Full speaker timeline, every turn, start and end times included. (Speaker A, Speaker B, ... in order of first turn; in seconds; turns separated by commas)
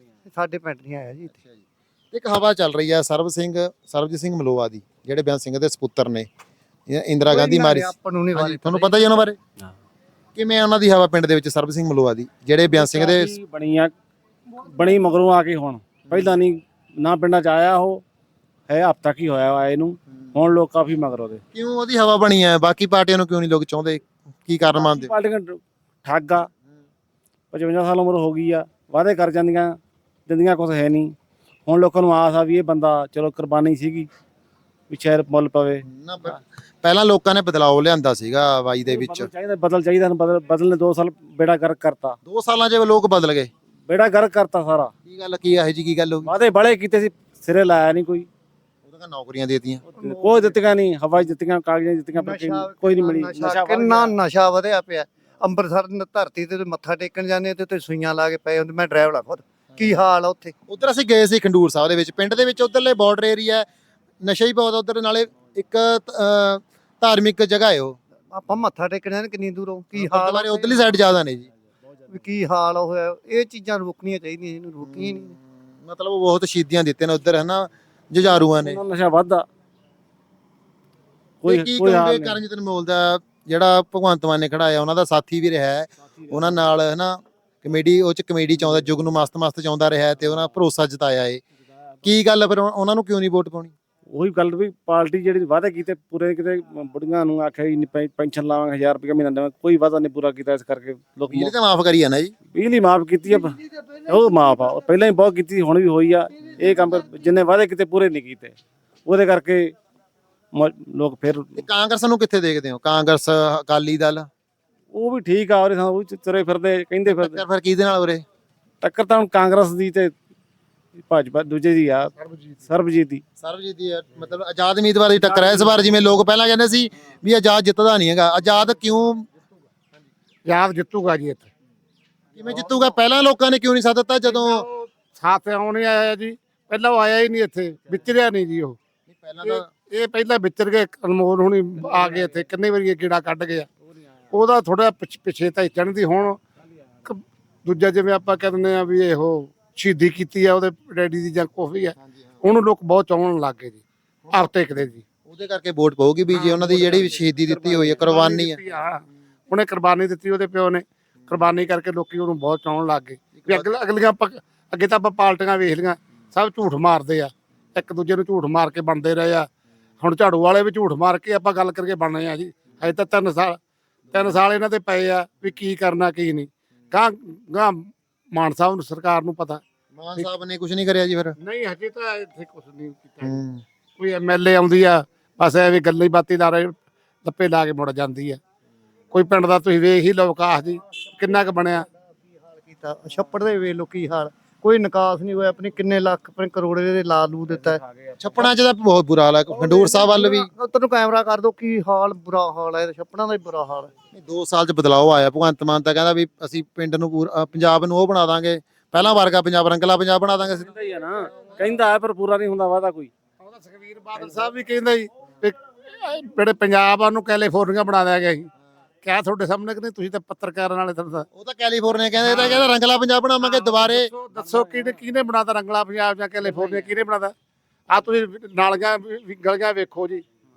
Speaker A: 0.2-1.3, Speaker B: 1.4-6.3, Speaker B: 6.9-9.4, Speaker A: 7.3-9.1, Speaker B: 10.3-13.3, Speaker C: 12.7-13.9, Speaker C: 14.6-18.0, Speaker C: 18.7-21.4, Speaker B: 21.5-25.1, Speaker C: 24.7-26.5, Speaker C: 27.5-31.1, Speaker C: 31.6-34.1, Speaker C: 34.9-35.8, Speaker B: 35.9-39.3, Speaker C: 38.9-42.2, Speaker B: 42.2-43.5, Speaker C: 43.9-44.9, Speaker B: 45.0-46.3, Speaker C: 46.2-48.3, Speaker B: 48.8-49.8, Speaker C: 50.0-54.2, Speaker A: 50.0-50.4, Speaker A: 52.1-60.5, Speaker B: 60.7-63.7, Speaker B: 64.2-68.0, Speaker A: 68.3-70.8, Speaker B: 70.0-71.5, Speaker A: 72.1-75.3, Speaker B: 74.8-78.8, Speaker C: 78.4-79.5, Speaker C: 81.4-82.4, Speaker B: 81.4-91.4, Speaker B: 92.0-93.7, Speaker C: 94.1-101.5, Speaker B: 101.3-102.3, Speaker C: 102.5-109.7, Speaker C: 110.5-111.6, Speaker B: 111.6-114.3, Speaker C: 114.9-117.4, Speaker B: 117.1-118.2, Speaker C: 118.8-120.1, Speaker C: 121.0-122.1, Speaker D: 122.2-122.6, Speaker C: 122.7-123.2, Speaker B: 123.4-129.3, Speaker D: 130.4-131.5, Speaker B: 132.3-134.7, Speaker D: 134.2-138.8, Speaker B: 139.1-139.7, Speaker D: 139.4-143.7, Speaker D: 144.3-146.4, Speaker D: 147.0-153.8, Speaker B: 152.0-152.4, Speaker D: 154.3-155.0, Speaker B: 155.2-158.6, Speaker D: 156.3-169.5, Speaker B: 163.3-163.7, Speaker D: 170.0-173.6, Speaker D: 174.1-177.8, Speaker D: 178.3-179.6, Speaker B: 179.9-181.4, Speaker D: 181.4-183.4, Speaker B: 183.2-183.6, Speaker D: 184.0-188.4, Speaker D: 189.1-191.9, Speaker A: 192.5-197.8, Speaker B: 198.2-200.5, Speaker A: 199.6-203.9, Speaker B: 204.1-210.7, Speaker C: 210.6-213.1, Speaker D: 213.4-218.5, Speaker D: 219.0-221.3, Speaker B: 221.3-224.1, Speaker D: 222.2-222.7, Speaker D: 223.4-227.3, Speaker C: 224.3-225.0, Speaker D: 227.9-230.2